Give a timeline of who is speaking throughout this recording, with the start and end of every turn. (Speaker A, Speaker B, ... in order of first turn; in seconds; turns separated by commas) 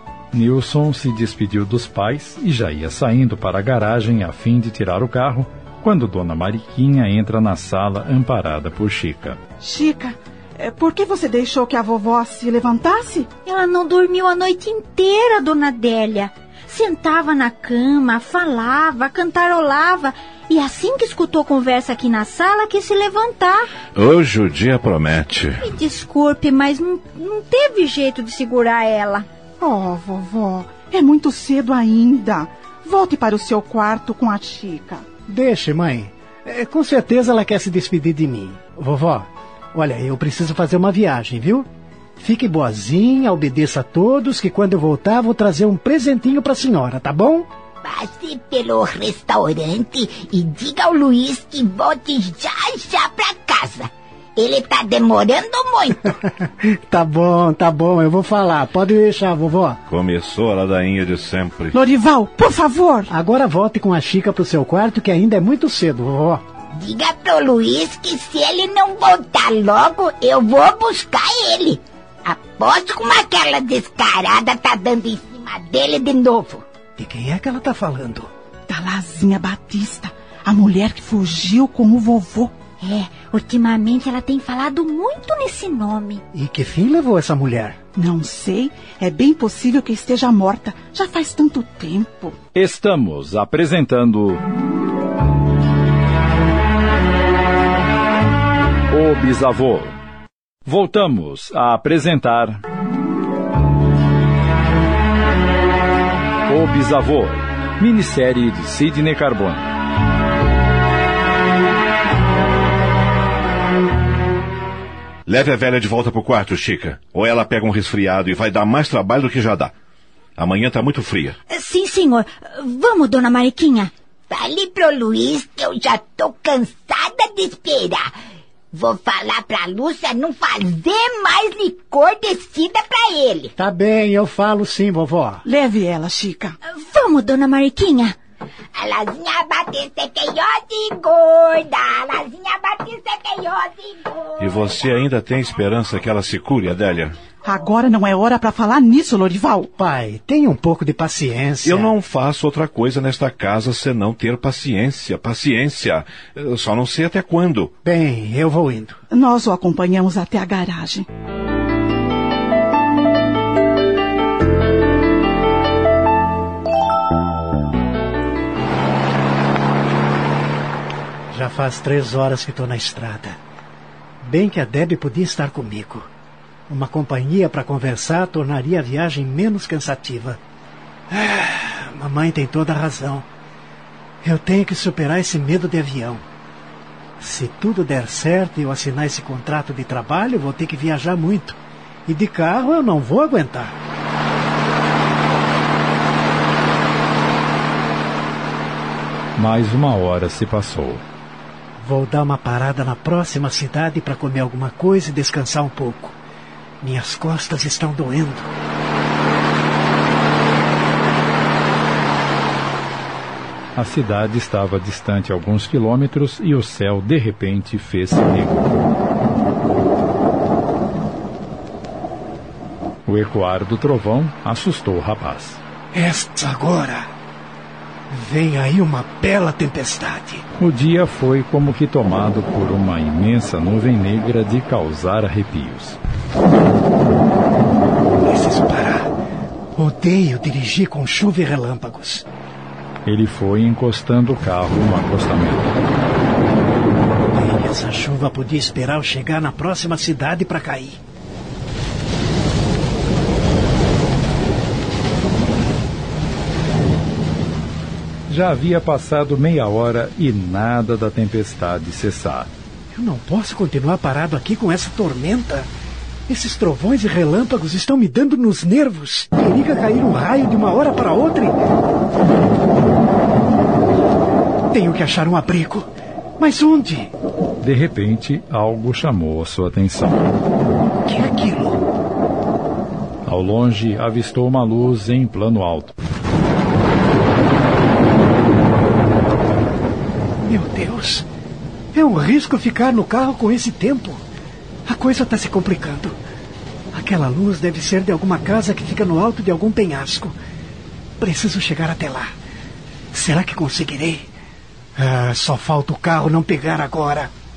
Speaker A: 0.3-9.4, Speaker B: 9.6-13.3, Speaker C: 13.4-23.7, Speaker D: 23.9-25.6, Speaker C: 25.6-29.2, Speaker B: 29.6-35.0, Speaker E: 35.3-41.7, Speaker E: 42.2-47.5, Speaker F: 47.8-56.1, Speaker E: 56.4-59.8, Speaker D: 59.9-61.7, Speaker B: 61.7-63.1, Speaker E: 63.1-66.4, Speaker F: 66.7-76.6, Speaker E: 77.0-78.3, Speaker B: 78.7-82.5, Speaker C: 82.8-86.2, Speaker E: 86.3-87.8, Speaker B: 88.0-92.4, Speaker A: 92.5-94.4, Speaker A: 98.9-100.0, Speaker A: 100.7-102.6, Speaker A: 106.5-109.7, Speaker D: 115.2-119.7, Speaker D: 120.4-121.4, Speaker C: 121.5-123.9, Speaker F: 124.3-128.1, Speaker F: 128.7-133.5, Speaker E: 133.6-135.4, Speaker B: 135.4-136.6, Speaker C: 136.8-138.2, Speaker F: 138.7-144.7, Speaker D: 144.4-147.2, Speaker B: 147.4-149.7, Speaker E: 149.8-151.9, Speaker D: 151.6-157.7, Speaker E: 157.8-159.0, Speaker B: 159.1-161.1, Speaker E: 171.3-173.4, Speaker E: 174.2-176.1, Speaker E: 176.7-180.4, Speaker E: 181.1-183.3, Speaker E: 184.2-186.2, Speaker E: 187.2-193.8, Speaker A: 199.3-201.0, Speaker E: 201.8-206.2, Speaker E: 206.8-208.5, Speaker A: 213.8-218.9, Speaker A: 223.1-225.6, Speaker E: 225.9-227.1, Speaker E: 228.1-230.4, Speaker A: 230.6-236.0, Speaker E: 238.2-239.1, Speaker E: 239.7-242.2, Speaker A: 243.1-245.8, Speaker E: 247.3-251.0, Speaker A: 258.3-262.5, Speaker E: 262.9-265.7, Speaker E: 266.3-271.6, Speaker E: 274.7-277.1, Speaker A: 277.6-280.3, Speaker E: 281.0-281.8, Speaker A: 283.2-285.9, Speaker E: 290.4-291.3, Speaker E: 291.9-294.2, Speaker E: 294.9-296.1, Speaker E: 296.9-300.4, Speaker E: 301.2-302.3, Speaker E: 303.1-304.3, Speaker E: 304.9-307.3